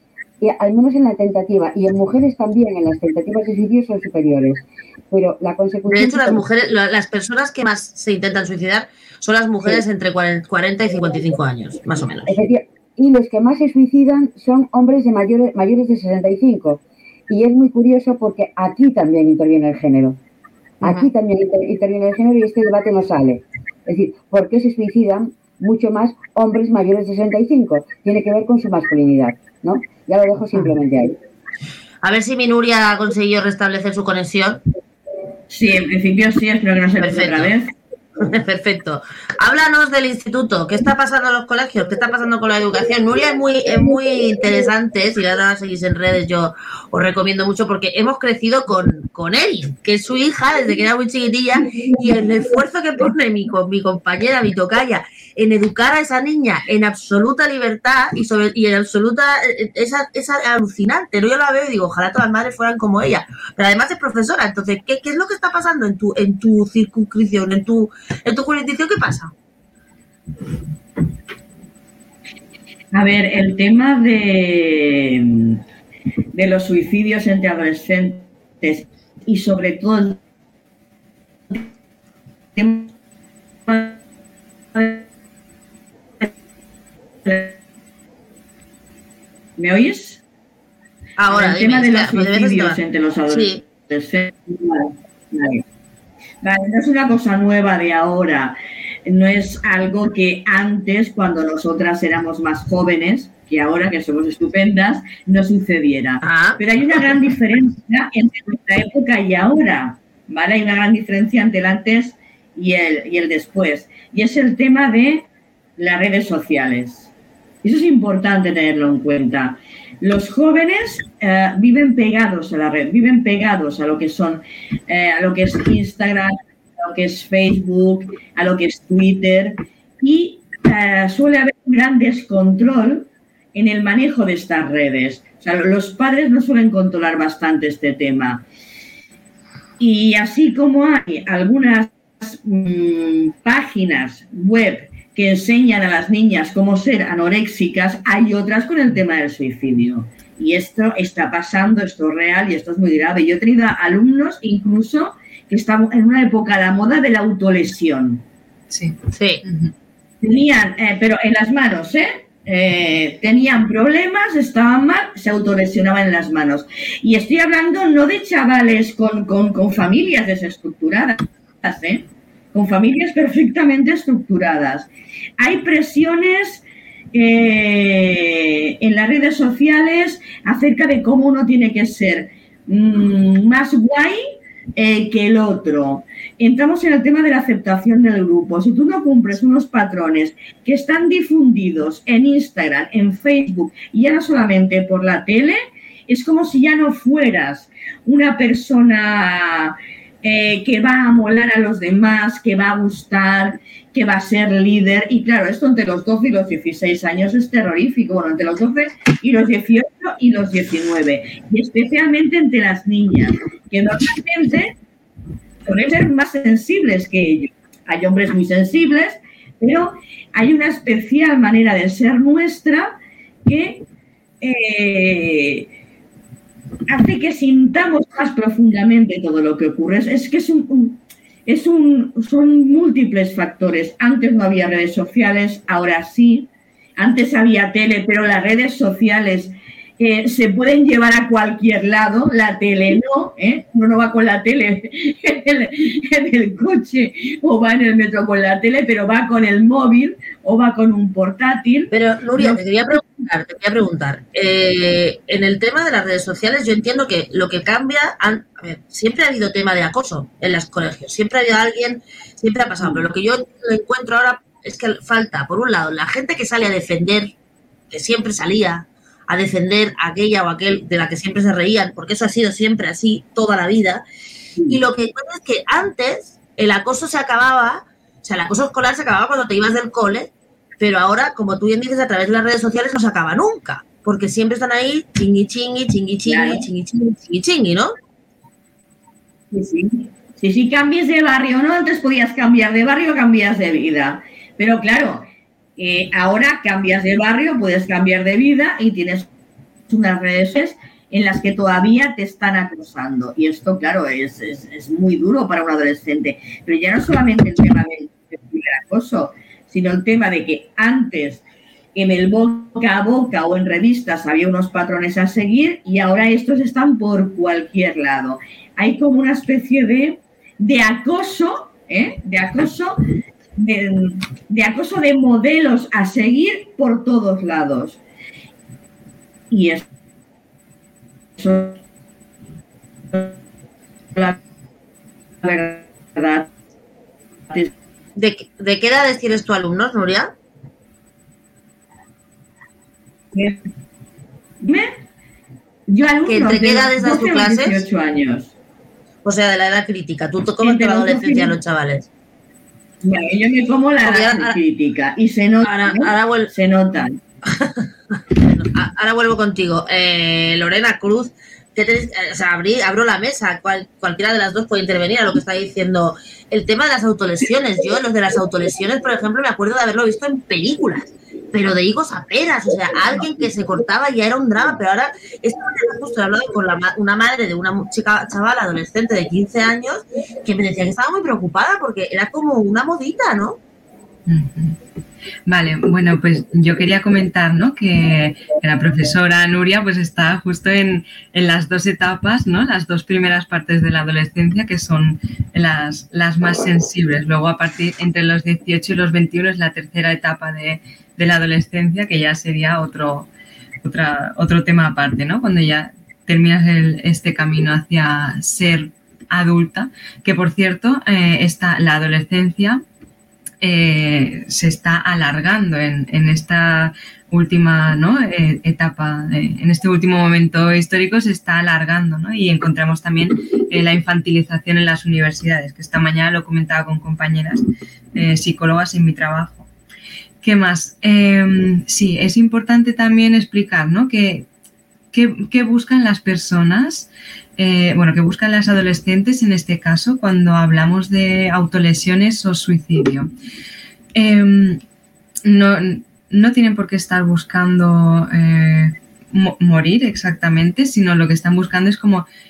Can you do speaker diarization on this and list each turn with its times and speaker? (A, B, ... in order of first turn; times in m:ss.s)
0:00.4-0:06.4 A
0:05.9-0:12.4 B
0:12.3-0:20.2 A
0:20.8-0:31.2 A
0:20.8-0:21.1 B
0:32.0-0:34.6 B
0:35.5-0:37.7 C
0:37.0-0:37.5 B
0:38.2-1:09.3 B
1:12.9-1:15.6 C
1:16.3-1:20.2 C
1:22.6-1:22.9 C
1:23.7-1:24.0 C
1:24.8-1:25.0 C
1:27.2-1:27.6 C
1:29.6-1:30.2 C
1:31.2-1:33.6 B
1:31.3-1:35.6 C
1:36.4-1:55.3 C
1:46.2-1:46.6 B
1:55.8-1:57.1 C
1:57.6-2:18.4 C
2:19.8-2:38.2 C
2:38.7-2:39.7 D
2:39.1-2:39.4 B
2:40.2-3:04.2 C
3:04.8-3:34.8 C
3:35.7-3:43.8 C
3:44.4-3:45.7 C
3:46.9-4:12.6 C
4:11.9-4:27.4 B
4:27.9-4:34.0 B
4:34.7-4:47.9 B
4:46.2-4:46.7 C
4:49.5-4:55.2 C
4:55.8-4:59.3 C
4:59.9-5:11.4 C
5:12.0-5:23.0 C
5:23.6-5:28.0 C
5:29.5-5:29.8 C
5:31.4-5:31.8 C
5:35.4-5:36.5 C
5:38.2-5:40.3 B
5:43.3-5:43.6 C
5:44.6-5:44.9 C
5:45.9-5:48.5 C
5:46.2-5:47.8 B
5:49.2-5:52.1 B
5:50.6-5:51.5 C
5:53.0-5:57.2 C
5:54.0-5:54.6 B
5:55.6-5:56.5 B
5:57.5-6:23.6 B
6:24.2-6:24.8 D
6:25.5-6:43.3 D
6:43.8-6:52.8 D
6:53.6-7:07.6 D
7:08.2-7:09.7 D
7:10.4-7:14.5 D
7:15.1-7:23.3 D
7:24.2-7:24.8 D
7:25.4-7:32.3 D